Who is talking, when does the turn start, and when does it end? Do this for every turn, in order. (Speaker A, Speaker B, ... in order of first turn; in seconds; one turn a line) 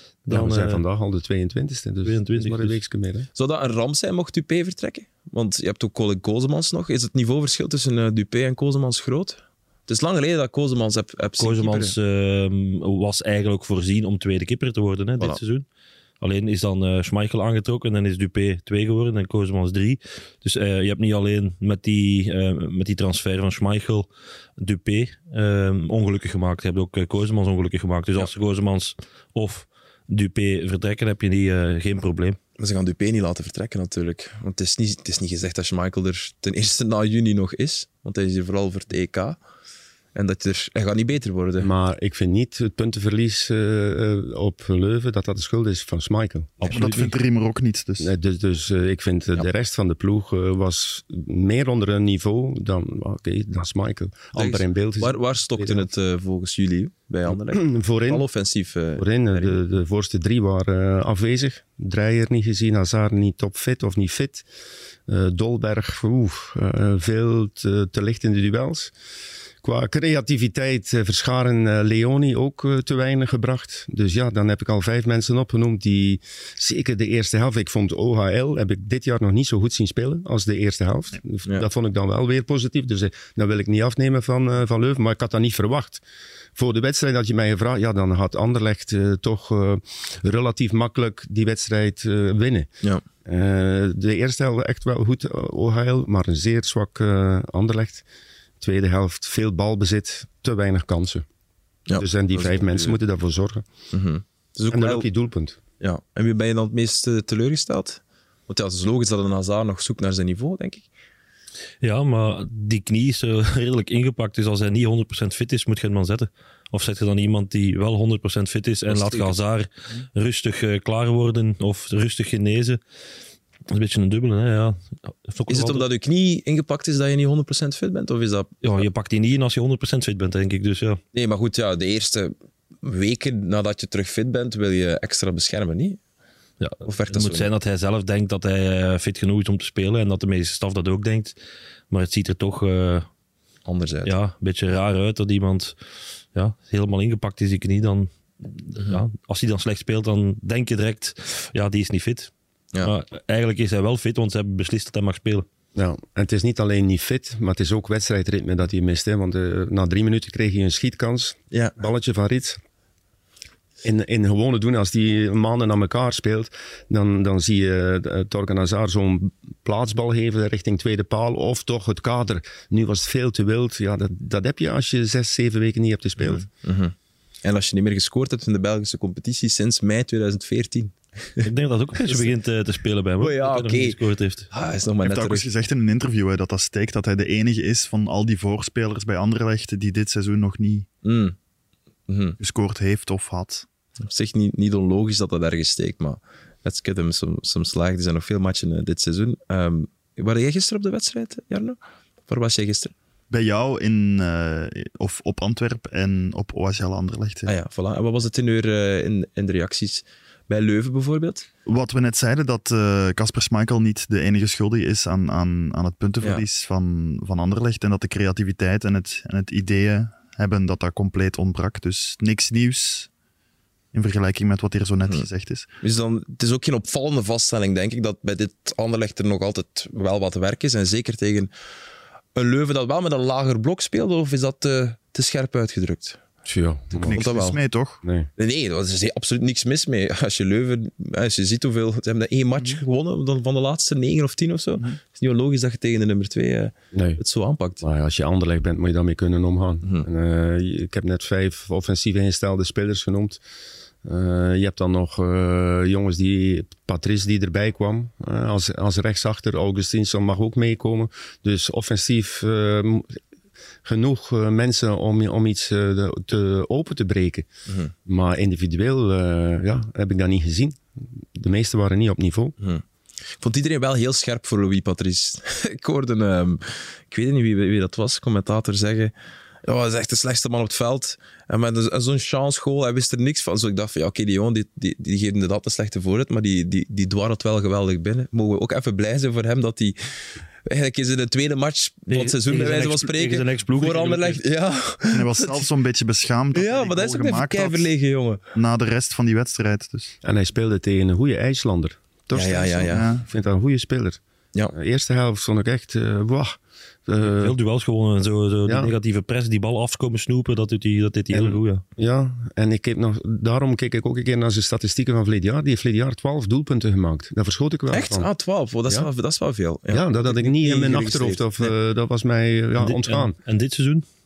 Speaker A: 0.2-0.8
Speaker B: 0.3-3.3
Speaker A: 2.0-2.8
Speaker C: 3.4-11.9
Speaker A: 11.4-15.7
Speaker A: 16.2-32.4
Speaker C: 32.6-39.4
Speaker C: 40.1-41.7
Speaker B: 41.6-46.8
Speaker A: 46.6-47.1
Speaker D: 46.7-48.1
Speaker B: 48.0-55.9
Speaker C: 54.4-59.6
Speaker B: 57.3-58.2
Speaker B: 59.0-64.5
Speaker B: 65.1-68.9
Speaker B: 69.6-86.0
Speaker B: 86.6-92.7
Speaker B: 93.2-98.0
Speaker B: 98.6-101.2
Speaker C: 101.9-103.0
Speaker B: 102.0-103.7
Speaker C: 103.9-105.1
Speaker B: 104.7-105.6
Speaker C: 105.8-110.9
Speaker A: 111.8-122.8
Speaker C: 118.9-119.4
Speaker A: 123.7-125.9
Speaker C: 125.5-128.8
Speaker A: 128.6-131.0
Speaker C: 131.1-136.0
Speaker A: 136.6-141.4
Speaker C: 136.8-137.5
Speaker A: 141.9-143.1
Speaker C: 143.7-144.1
Speaker A: 144.1-145.8
Speaker A: 146.3-155.5
Speaker B: 155.8-162.6
Speaker B: 163.8-176.5
Speaker C: 176.2-176.9
Speaker C: 177.4-181.5
Speaker A: 181.4-184.5
Speaker C: 182.0-182.3
Speaker C: 183.2-184.0
Speaker C: 184.5-185.5
Speaker D: 185.0-190.9
Speaker C: 191.0-191.3
Speaker C: 192.1-192.4
Speaker D: 192.4-193.7
Speaker C: 194.1-202.9
Speaker D: 203.3-207.5
Speaker C: 207.5-211.5
Speaker D: 211.7-223.1
Speaker D: 223.9-225.7
Speaker C: 225.8-231.5
Speaker C: 232.3-236.2
Speaker B: 236.5-237.2
Speaker C: 237.0-237.6
Speaker D: 237.0-238.0
Speaker B: 238.0-238.3
Speaker C: 238.4-247.8
Speaker B: 246.9-247.2
Speaker B: 247.8-253.4
Speaker B: 254.0-263.2
Speaker B: 263.9-267.5
Speaker C: 267.7-267.9
Speaker B: 268.1-272.6
Speaker C: 273.4-279.1
Speaker C: 279.6-290.0
Speaker C: 290.6-295.7
Speaker A: 292.1-294.4
Speaker D: 295.1-297.9
Speaker C: 296.5-298.4
Speaker D: 298.5-300.1
Speaker B: 300.2-304.2
Speaker C: 302.3-303.1
Speaker D: 302.9-303.2
Speaker B: 304.7-307.6
Speaker A: 307.2-311.8
Speaker B: 308.7-308.9
Speaker B: 311.3-318.3
Speaker C: 317.9-321.7
Speaker B: 319.9-323.4
Speaker A: 322.8-324.1